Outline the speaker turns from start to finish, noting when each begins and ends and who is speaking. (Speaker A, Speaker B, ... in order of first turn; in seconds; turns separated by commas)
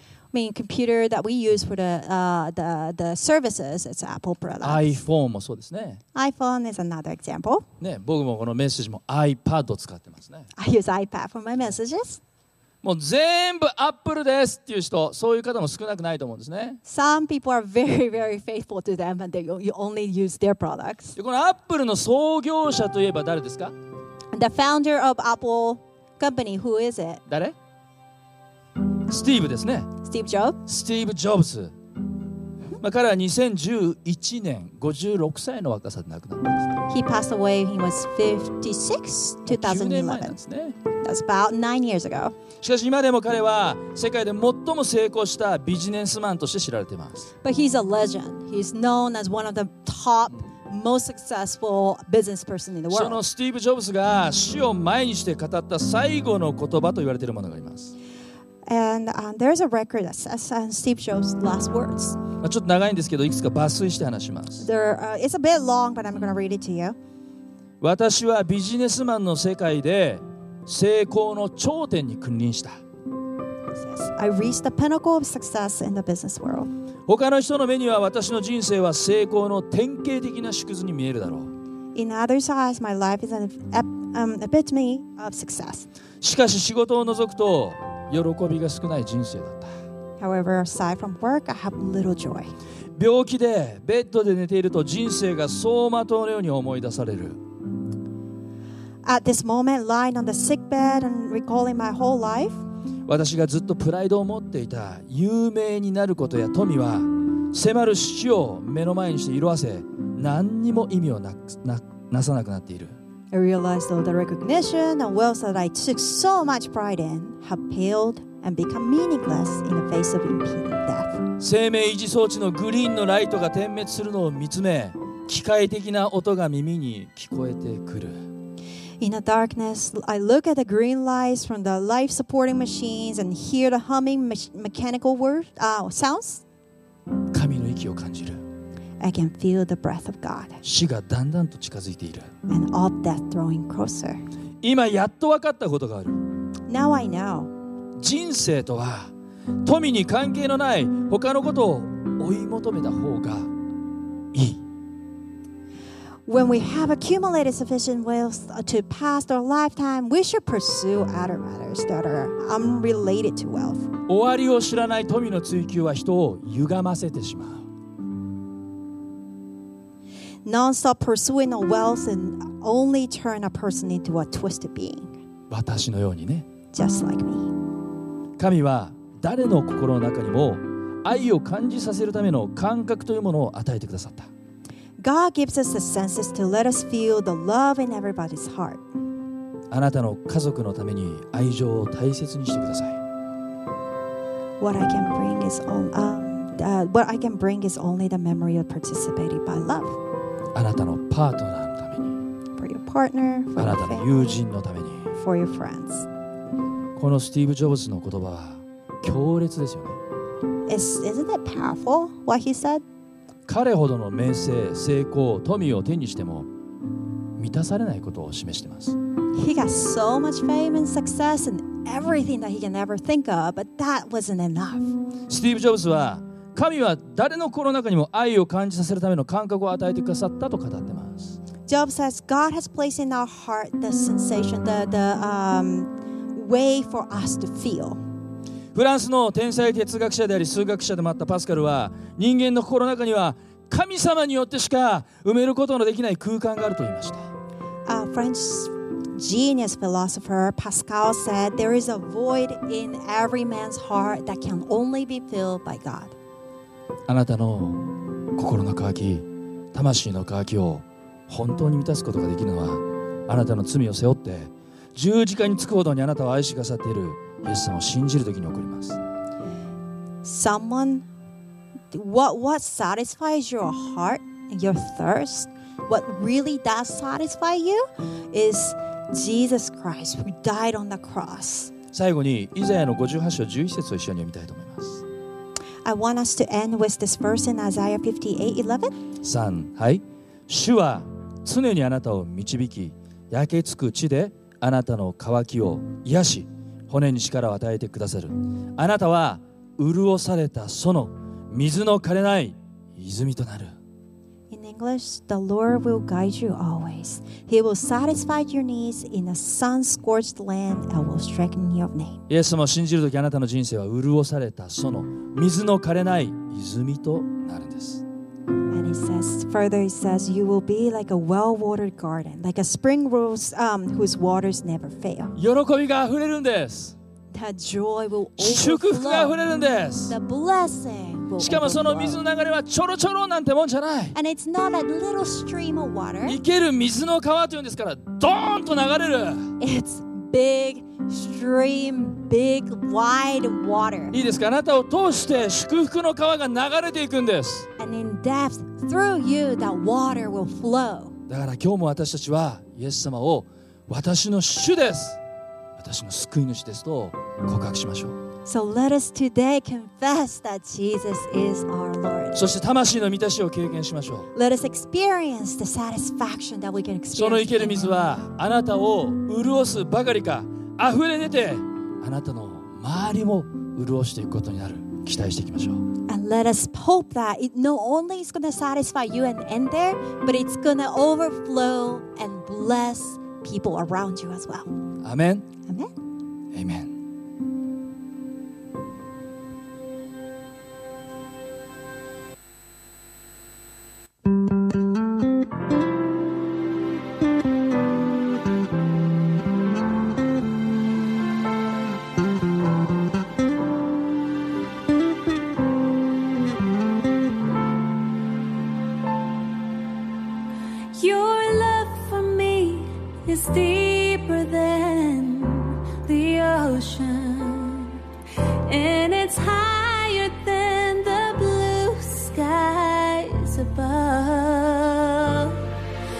Speaker A: 0.3-5.0, Speaker B: 4.6-6.0, Speaker A: 6.1-7.7, Speaker B: 7.8-10.5, Speaker A: 10.6-12.2, Speaker B: 12.8-16.8, Speaker A: 16.8-21.1, Speaker B: 21.1-23.7, Speaker A: 24.3-27.2, Speaker B: 27.3-27.6, Speaker B: 29.1-29.9, Speaker A: 30.0-30.6, Speaker B: 30.7-31.7, Speaker B: 32.8-36.7, Speaker A: 36.9-40.4, Speaker B: 39.5-40.8, Speaker A: 41.0-42.4, Speaker B: 42.6-47.3, Speaker A: 47.4-53.2, Speaker B: 52.9-57.9, Speaker A: 58.7-62.2, Speaker B: 62.4-64.7, Speaker A: 64.6-67.0, Speaker B: 67.8-72.8, Speaker A: 73.8-76.7, Speaker B: 77.1-81.5, Speaker A: 81.9-85.9, Speaker B: 86.2-89.7, Speaker A: 90.2-92.5, Speaker B: 93.0-97.4, Speaker A: 99.0-102.6, Speaker B: 103.1-113.0, Speaker A: 113.3-121.2, Speaker B: 121.4-128.2, Speaker A: 129.0-136.4, Speaker B: 137.3-138.4, Speaker A: 139.0-140.6, Speaker B: 140.6-142.3, Speaker A: 142.5-144.2, Speaker B: 144.6-146.2, Speaker A: 146.7-147.5, Speaker B: 148.0-149.1, Speaker B: 149.6-153.5, Speaker B: 154.3-154.6, Speaker A: 156.3-163.9, Speaker B: 164.1-167.7, Speaker A: 170.4-175.1, Speaker B: 175.5-176.4, Speaker A: 176.7-177.5, Speaker B: 178.4-184.3, Speaker A: 185.0-188.8, Speaker B: 189.7-193.0, Speaker A: 194.6-200.0, Speaker B: 200.5-202.2, Speaker A: 202.6-204.4, Speaker B: 203.6-205.1, Speaker A: 205.1-206.1, Speaker B: 206.9-210.0, Speaker A: 210.7-212.8, Speaker B: 213.5-216.5, Speaker B: 217.4-218.9, Speaker A: 219.3-224.9, Speaker B: 225.3-231.4, Speaker A: 231.7-238.0, Speaker B: 238.7-247.3, Speaker A: 247.9-256.1, Speaker B: 257.1-269.0, Speaker A: 270.2-271.0, Speaker A: 271.9-281.7, Speaker B: 281.9-285.0, Speaker A: 285.8-288.9, Speaker B: 289.2-303.7, Speaker A: 304.5-312.2, Speaker B: 312.3-318.0, Speaker A: 318.7-325.3, Speaker B: 325.4-326.9, Speaker A: 327.3-329.4, Speaker B: 328.4-330.1, Speaker A: 330.1-332.2, Speaker B: 331.4-334.1, Speaker A: 334.1-336.4, Speaker B: 336.2-339.5, Speaker A: 339.6-344.1, Speaker B: 344.1-347.7, Speaker A: 347.8-351.1, Speaker B: 351.3-355.2, Speaker B: 355.8-358.2, Speaker A: 358.4-362.4, Speaker B: 362.3-364.3, Speaker A: 364.3-367.9, Speaker B: 367.1-375.8, Speaker A: 376.1-384.7, Speaker B: 385.0-385.4, Speaker A: 385.7-385.9, Speaker B: 386.5-386.9, Speaker C: 410.9-418.0, Speaker C: 418.7-425.7